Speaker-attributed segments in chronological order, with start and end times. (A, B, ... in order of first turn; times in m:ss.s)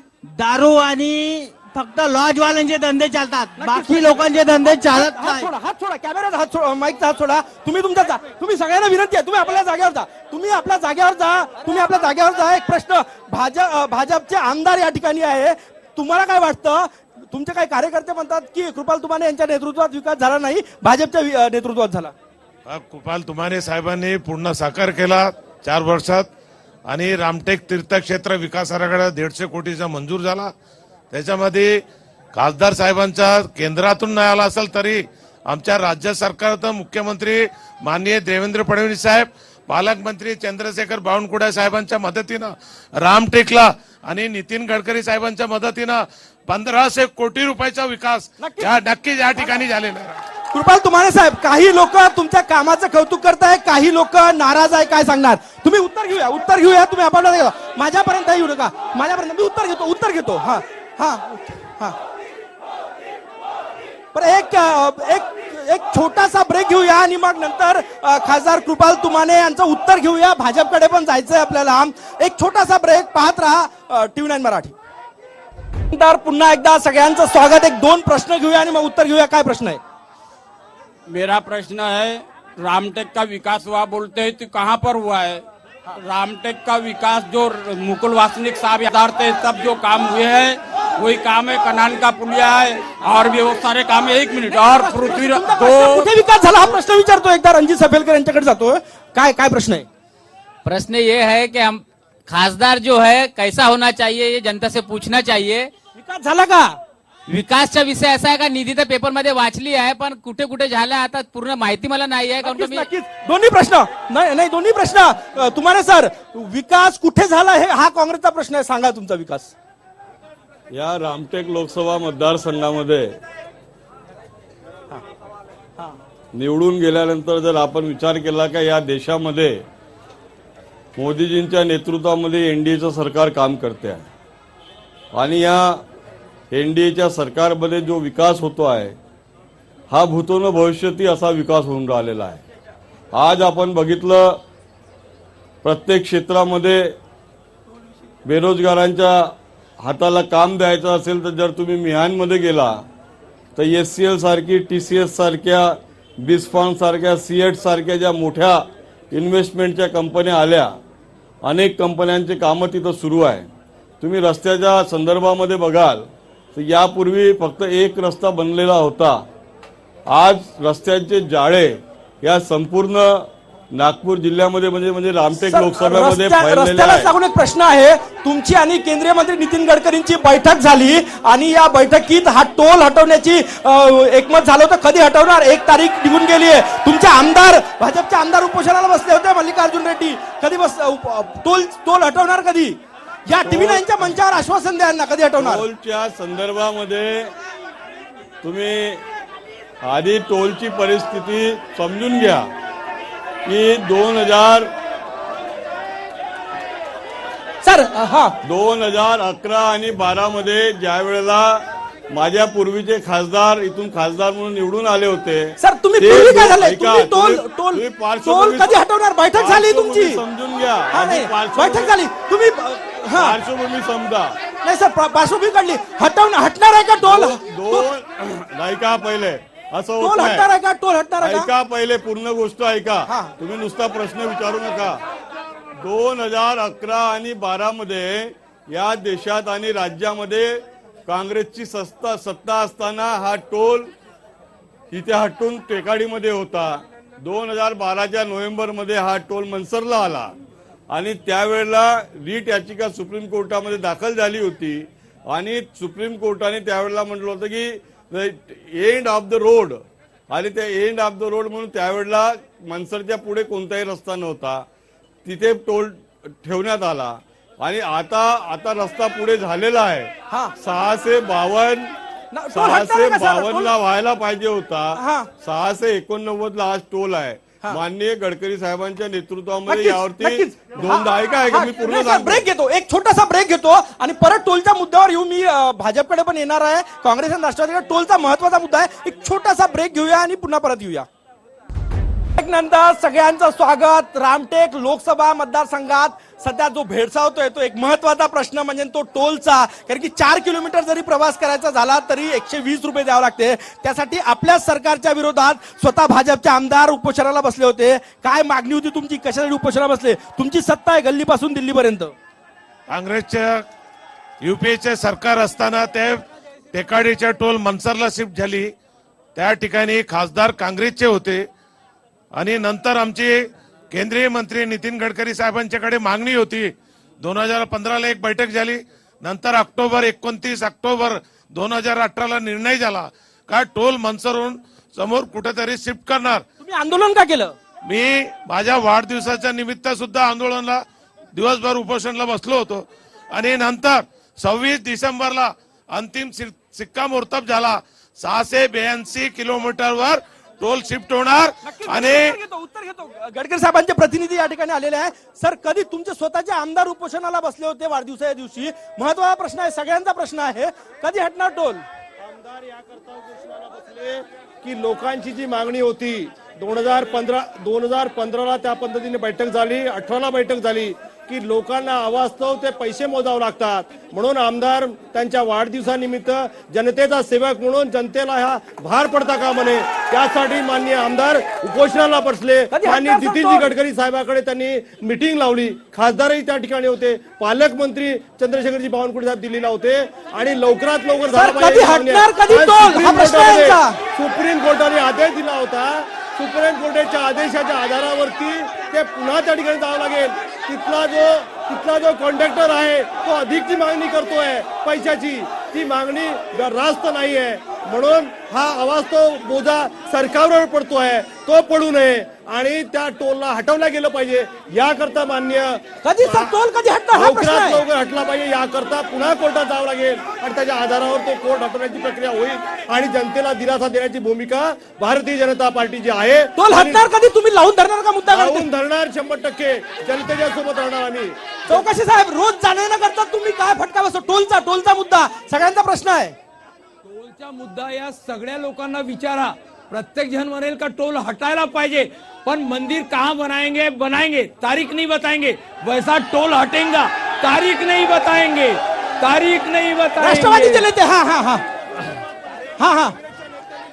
0:00.4-0:05.4 A
0:03.6-0:22.1 B
0:22.7-0:26.2 C
0:26.9-0:30.5 C
0:31.1-0:31.8 C
0:32.3-0:50.2 C
0:48.4-0:48.7 B
0:50.5-1:02.0 B
1:04.1-1:14.8 B
1:15.9-1:19.8 B
1:21.1-1:25.4 D
1:26.0-1:36.1 D
1:34.5-1:39.9 B
1:40.6-1:45.7 E
1:46.0-1:46.8 B
1:47.3-1:52.8 E
1:52.4-1:59.5 B
2:00.7-2:03.2 F
2:06.3-2:09.6 F
2:11.0-2:14.1 F
2:15.1-2:15.8 F
2:16.5-2:19.0 F
2:19.9-2:22.4 F
2:23.1-2:24.4 F
2:25.6-2:26.9 F
2:28.2-2:32.8 F
2:33.5-2:40.8 F
2:41.4-2:43.5 F
2:44.0-2:49.2 F
2:50.1-2:57.1 F
2:55.5-3:15.6 B
3:13.4-3:14.2 F
3:15.4-3:17.3 F
3:18.4-3:19.0 F
3:19.8-3:22.5 F
3:23.4-3:24.7 F
3:27.6-3:28.4 B
3:28.4-3:38.8 F
3:35.6-3:40.2 B
3:39.3-3:41.9 F
3:40.9-3:43.4 B
3:43.1-3:44.4 F
3:44.6-3:47.8 B
3:47.0-3:50.5 F
3:50.0-3:51.5 B
3:51.2-3:55.0 F
3:53.1-3:53.3 B
3:55.8-4:03.9 F
4:04.9-4:10.3 F
4:10.9-4:24.6 F
4:25.2-4:31.9 F
4:32.3-4:33.7 B
4:32.5-4:42.5 F
4:35.0-4:35.3 B
4:39.7-4:51.1 B
4:52.4-5:12.1 B
5:12.9-5:13.6 C
5:14.4-5:18.7 C
5:19.4-5:21.4 C
5:22.4-5:23.4 C
5:23.9-5:36.4 C
5:36.6-5:37.5 B
5:37.8-5:40.8 C
5:41.3-5:42.8 C
5:43.3-5:52.3 C
5:51.6-6:01.8 B
6:02.2-6:56.5 G
6:22.7-6:23.7 B
6:31.3-6:34.0 B
6:56.0-6:57.8 B
6:57.1-7:07.0 G
7:06.6-7:08.7 B
7:08.3-7:11.8 G
7:11.7-7:16.4 B
7:17.0-7:30.8 H
7:30.2-7:31.6 B
7:32.8-7:33.2 B